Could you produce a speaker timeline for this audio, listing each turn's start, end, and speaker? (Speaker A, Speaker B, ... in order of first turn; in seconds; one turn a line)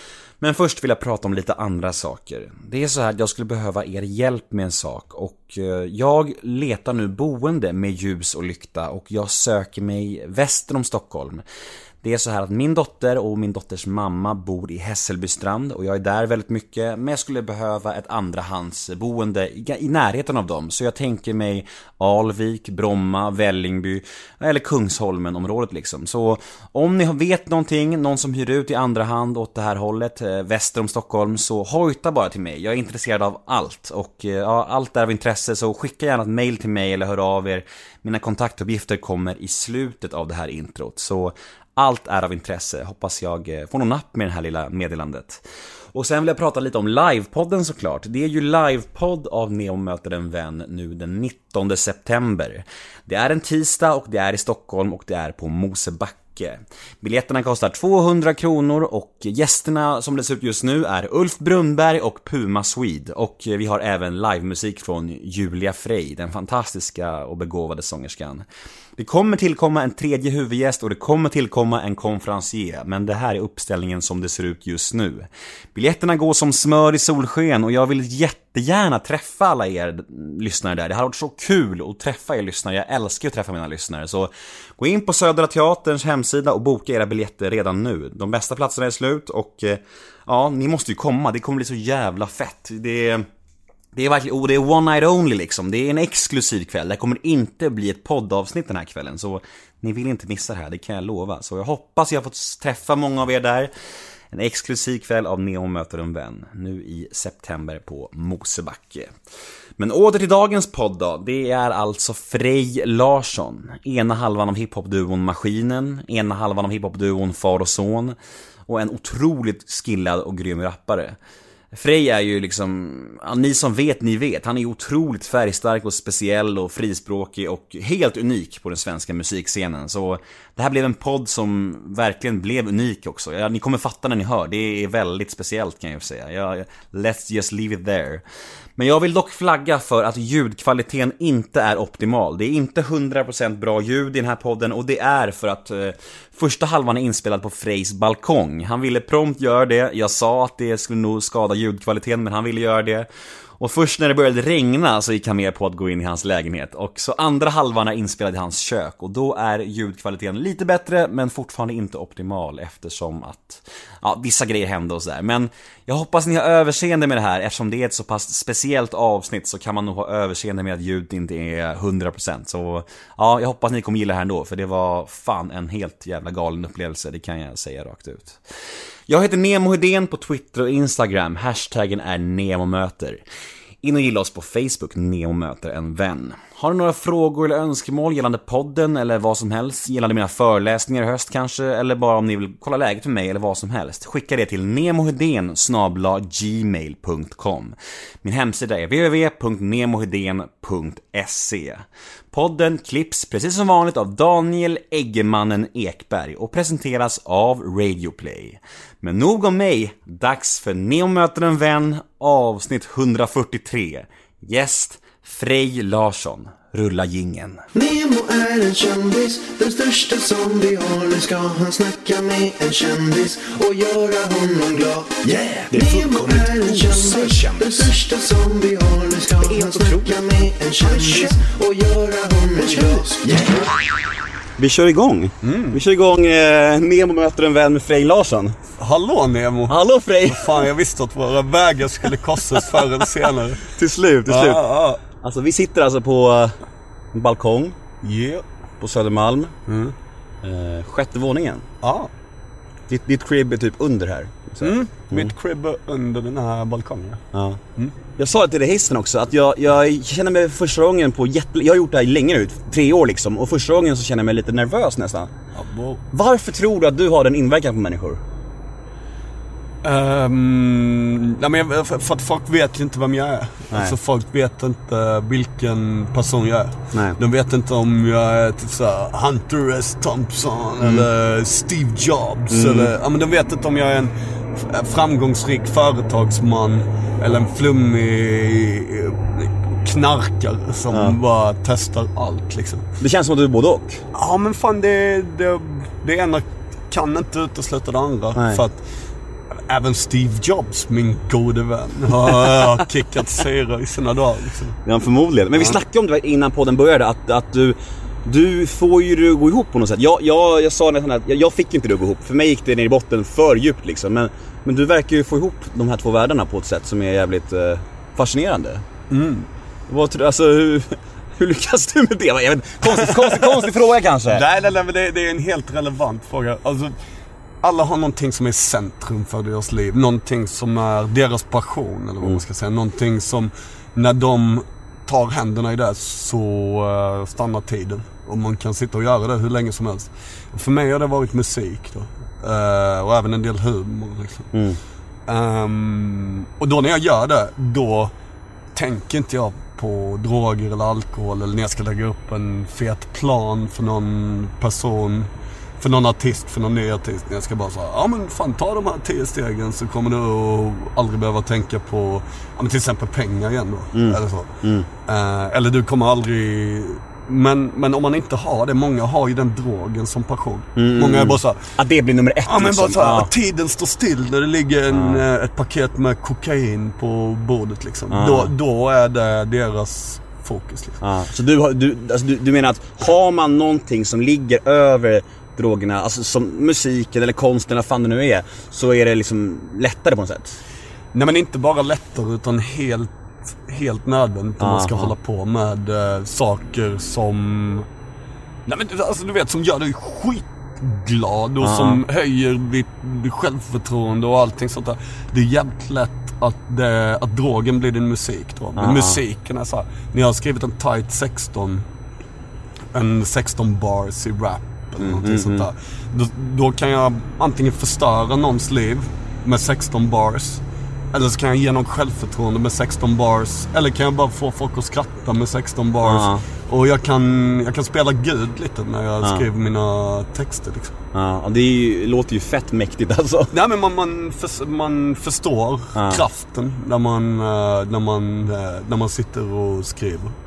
Speaker A: 0.4-11.4
Speaker A: 12.0-45.4
Speaker A: 45.9-68.5
Speaker A: 69.0-93.2
Speaker A: 93.9-103.7
Speaker A: 104.3-109.1
Speaker A: 109.8-118.2
Speaker A: 118.7-121.2
Speaker A: 121.7-138.2
Speaker A: 138.8-153.1
Speaker A: 153.6-178.4
Speaker A: 179.1-183.2
Speaker A: 183.8-217.6
Speaker B: 217.7-233.8
Speaker C: 225.7-227.2
Speaker A: 225.7-226.0
Speaker A: 227.3-227.8
Speaker C: 229.7-230.1
Speaker A: 231.0-231.3
Speaker A: 232.6-233.5
Speaker A: 234.6-238.6
Speaker C: 235.4-235.8
Speaker C: 238.8-243.7
Speaker A: 239.7-240.6
Speaker A: 242.5-243.0
Speaker A: 243.7-246.6
Speaker C: 244.2-245.0
Speaker A: 247.1-247.8
Speaker C: 248.0-248.4
Speaker A: 248.8-249.5
Speaker C: 249.7-249.9
Speaker A: 250.4-251.6
Speaker C: 251.8-252.1
Speaker A: 252.9-255.3
Speaker C: 254.6-257.2
Speaker A: 257.3-257.6
Speaker A: 258.2-265.3
Speaker C: 265.5-266.0
Speaker A: 266.1-268.2
Speaker C: 269.8-292.8
Speaker A: 273.7-273.9
Speaker A: 276.9-277.2
Speaker A: 280.8-281.1
Speaker A: 282.5-282.9
Speaker A: 290.9-291.2
Speaker A: 293.0-294.0
Speaker C: 294.1-298.8
Speaker A: 298.3-298.6
Speaker C: 299.5-304.8
Speaker A: 304.8-318.8
Speaker C: 319.1-319.5
Speaker A: 319.9-324.4
Speaker C: 322.8-323.7
Speaker C: 324.3-326.9
Speaker C: 327.6-344.5
Speaker A: 344.5-344.8
Speaker C: 345.2-348.1
Speaker C: 348.7-371.7
Speaker A: 363.9-364.9
Speaker A: 370.8-373.3
Speaker C: 372.4-381.0
Speaker A: 374.9-375.2
Speaker A: 378.1-378.5
Speaker A: 381.0-390.6
Speaker C: 391.1-397.9
Speaker A: 394.6-395.1
Speaker C: 398.6-411.9
Speaker A: 401.6-402.0
Speaker A: 408.8-409.2
Speaker C: 412.9-430.9
Speaker A: 415.0-415.7
Speaker A: 426.0-426.4
Speaker A: 431.1-433.5
Speaker C: 433.5-440.4
Speaker A: 435.9-436.2